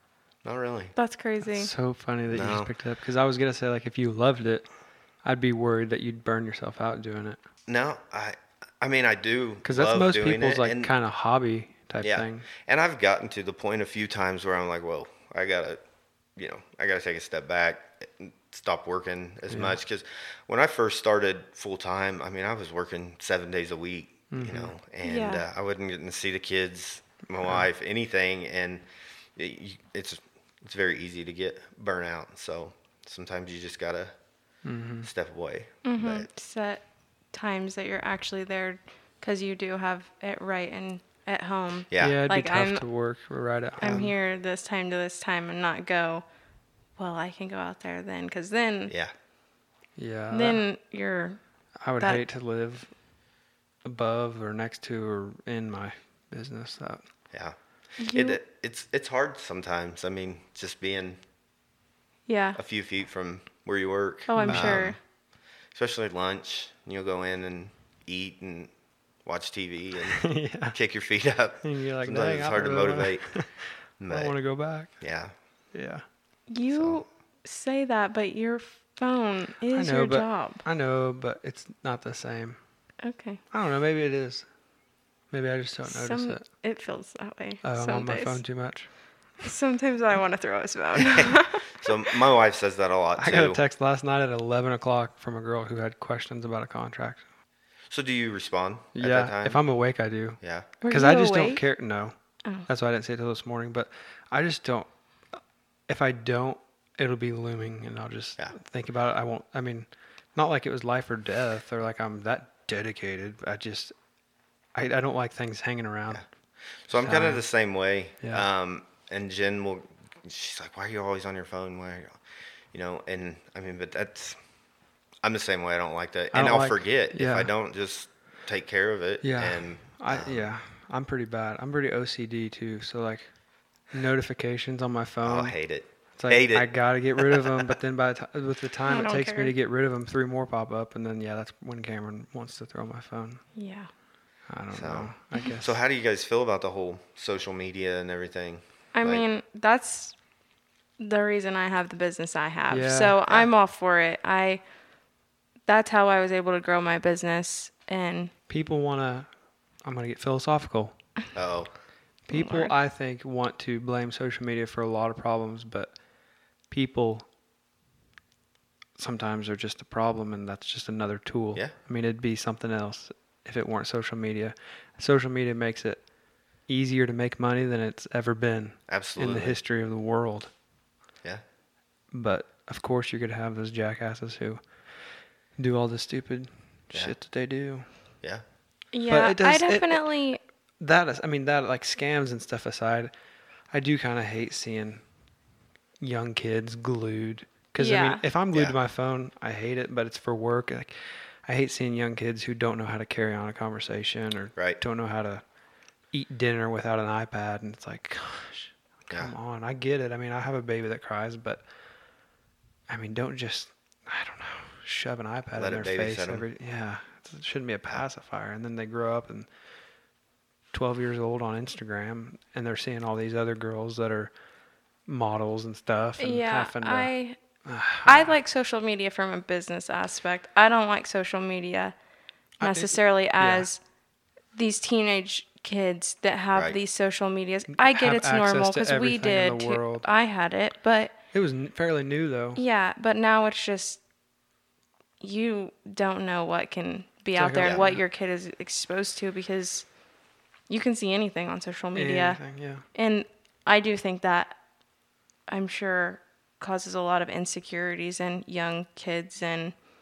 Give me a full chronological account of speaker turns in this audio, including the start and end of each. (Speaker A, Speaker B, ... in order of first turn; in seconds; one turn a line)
Speaker A: 0.4-0.9
Speaker B: 0.9-1.7
Speaker C: 1.4-4.7
Speaker A: 2.3-2.7
Speaker C: 5.2-7.4
Speaker A: 7.7-10.9
Speaker C: 9.6-12.4
Speaker A: 12.0-15.8
Speaker A: 16.4-28.8
Speaker C: 19.5-19.8
Speaker C: 24.3-24.7
Speaker B: 25.0-25.4
Speaker A: 29.4-34.1
Speaker C: 34.6-35.1
Speaker A: 35.0-36.3
Speaker B: 35.8-36.8
Speaker B: 37.3-42.8
Speaker A: 41.9-42.2
Speaker C: 42.0-44.1
Speaker B: 43.8-46.2
Speaker B: 47.0-48.9
Speaker A: 48.9-49.1
Speaker C: 50.0-50.6
Speaker B: 50.3-51.4
Speaker C: 51.8-52.9
Speaker C: 53.8-57.0
Speaker B: 58.0-58.4
Speaker A: 58.1-61.2
Speaker B: 62.3-62.6
Speaker A: 62.5-65.0
Speaker B: 64.3-65.0
Speaker C: 64.3-64.9
Speaker A: 65.7-68.7
Speaker A: 69.2-73.3
Speaker C: 70.2-70.8
Speaker C: 71.6-74.9
Speaker A: 74.0-74.3
Speaker A: 75.0-75.3
Speaker C: 75.7-76.0
Speaker B: 76.5-80.6
Speaker A: 76.7-77.0
Speaker C: 79.7-82.6
Speaker B: 83.0-83.4
Speaker C: 83.5-84.5
Speaker C: 85.3-86.4
Speaker B: 85.8-88.4
Speaker C: 87.6-88.9
Speaker B: 89.4-91.9
Speaker A: 91.0-93.6
Speaker C: 93.2-97.2
Speaker A: 97.9-99.6
Speaker C: 98.9-102.1
Speaker A: 100.4-100.7
Speaker B: 100.8-101.6
Speaker C: 102.7-104.9
Speaker C: 105.9-113.9
Speaker C: 114.7-116.2
Speaker A: 116.8-122.2
Speaker C: 117.0-117.4
Speaker C: 118.2-118.5
Speaker A: 122.7-124.4
Speaker A: 125.2-130.5
Speaker C: 126.3-127.5
Speaker C: 129.2-133.3
Speaker C: 133.9-135.6
Speaker A: 135.2-137.7
Speaker C: 136.2-143.4
Speaker B: 138.9-139.5
Speaker B: 143.5-143.9
Speaker C: 144.5-145.7
Speaker A: 144.7-149.2
Speaker B: 148.9-150.1
Speaker B: 151.0-154.6
Speaker C: 152.7-153.2
Speaker B: 155.7-158.3
Speaker C: 158.5-159.3
Speaker C: 159.8-160.9
Speaker A: 161.3-161.7
Speaker C: 162.3-165.9
Speaker B: 162.3-162.7
Speaker C: 166.7-167.3
Speaker C: 169.0-176.1
Speaker C: 176.6-180.5
Speaker A: 178.9-179.6
Speaker C: 182.1-184.6
Speaker C: 185.6-187.9
Speaker B: 188.9-190.4
Speaker C: 189.1-190.1
Speaker C: 190.8-193.1
Speaker C: 193.7-195.0
Speaker C: 196.0-205.4
Speaker B: 197.8-198.2
Speaker C: 206.1-211.6
Speaker C: 212.9-219.5
Speaker A: 215.6-216.5
Speaker C: 220.7-224.3
Speaker C: 225.1-227.1
Speaker B: 226.2-227.4
Speaker C: 227.6-228.3
Speaker B: 228.1-231.9
Speaker C: 232.6-233.7
Speaker B: 232.6-233.8
Speaker B: 234.5-241.1
Speaker C: 237.7-240.1
Speaker C: 241.3-242.6
Speaker B: 242.6-244.0
Speaker B: 245.2-249.9
Speaker C: 247.3-248.0
Speaker B: 250.7-252.4
Speaker C: 251.9-252.8
Speaker B: 252.9-254.6
Speaker B: 255.5-259.7